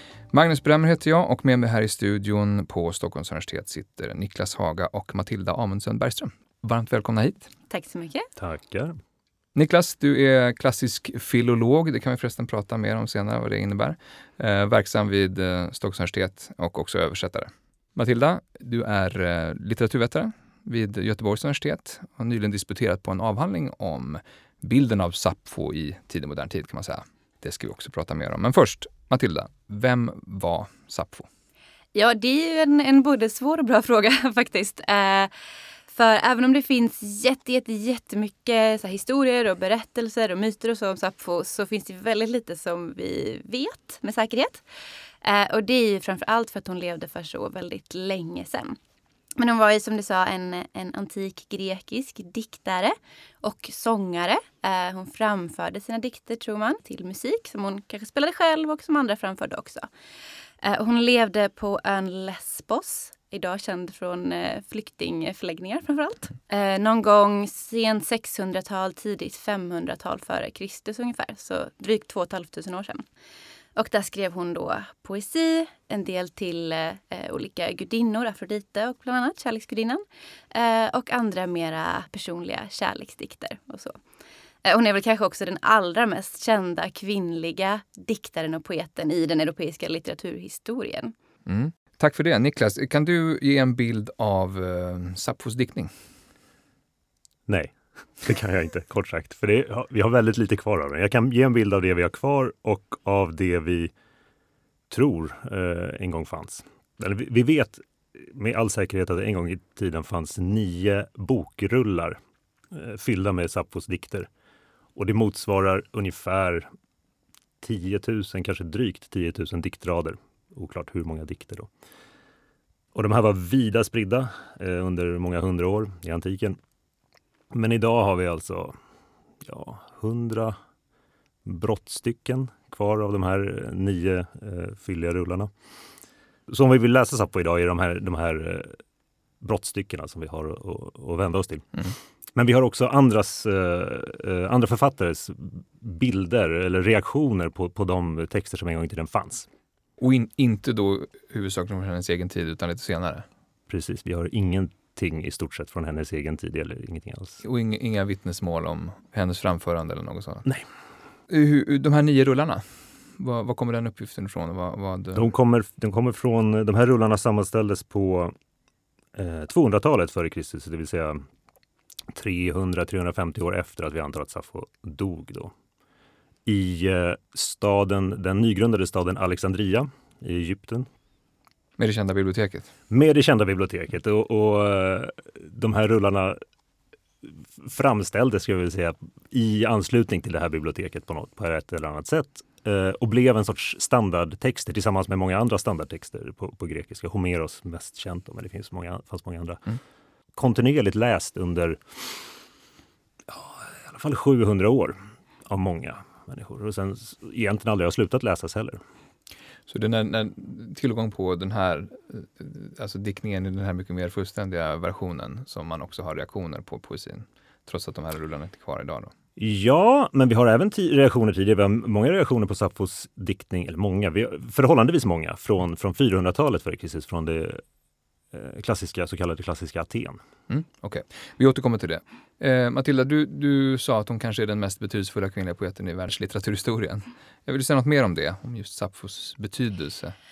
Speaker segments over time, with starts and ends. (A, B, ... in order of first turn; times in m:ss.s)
0:00.3-0:07.5 A
0:07.7-0:08.3 B
0:08.4-0:09.0 C
0:09.6-0:31.3 A
0:32.0-0:35.3 B
0:35.9-0:44.6 B
0:45.2-0:48.8 B
0:49.4-0:59.9 B
1:00.6-1:13.0 B
1:13.8-1:24.0 B
1:24.6-1:31.1 B
1:31.4-1:35.9 A
1:37.5-1:43.9 C
1:44.9-1:52.2 C
1:52.7-1:54.3 C
1:55.0-1:56.7 C
1:57.6-2:01.7 C
2:02.9-2:06.6 C
2:07.5-2:08.8 C
2:09.4-2:10.6 C
2:11.4-2:15.5 C
2:16.5-2:18.8 C
2:19.4-2:29.5 C
2:30.0-2:33.2 A
2:33.7-2:37.4 C
2:37.4-2:40.5 A
2:41.3-2:45.3 A
2:45.1-2:48.4 C
2:49.1-2:51.2 C
2:52.1-2:55.5 C
2:56.4-3:00.9 C
3:01.8-3:02.7 A
3:02.9-3:06.4 C
3:07.2-3:19.6 C
3:20.4-3:22.2 C
3:23.3-3:28.8 C
3:29.7-3:39.1 A
3:39.4-3:47.6 C
3:48.3-3:50.2 C
3:50.5-4:00.2 A